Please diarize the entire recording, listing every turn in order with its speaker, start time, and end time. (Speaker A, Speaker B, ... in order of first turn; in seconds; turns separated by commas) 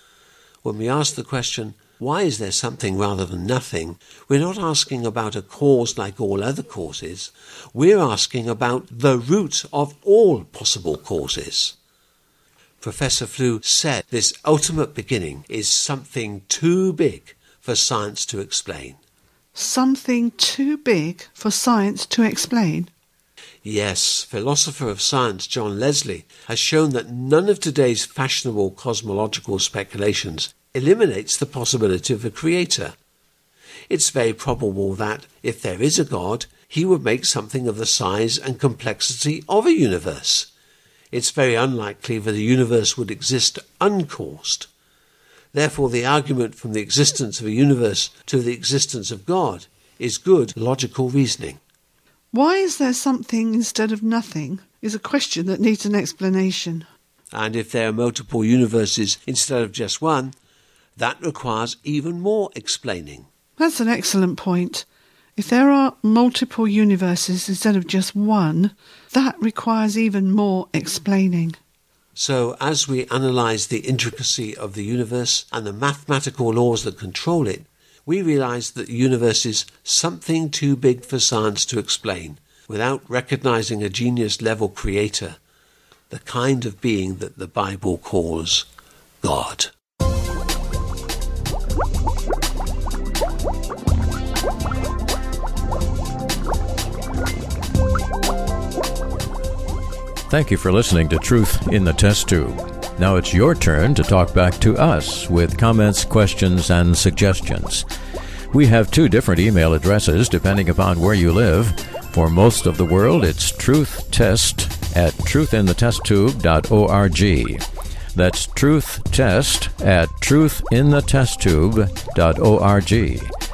Speaker A: 0.6-11.7, Speaker A: 12.8-19.0, Speaker B: 19.5-22.9, Speaker A: 23.6-32.9, Speaker A: 33.9-40.5, Speaker A: 41.1-44.7, Speaker A: 45.5-51.6, Speaker B: 52.3-56.9, Speaker A: 57.3-60.3, Speaker A: 61.0-63.3, Speaker B: 63.6-64.8, Speaker B: 65.3-71.6, Speaker A: 72.2-85.4, Speaker A: 86.1-88.7, Speaker A: 89.2-89.7, Speaker C: 100.3-107.8, Speaker C: 108.5-117.6, Speaker C: 118.1-123.3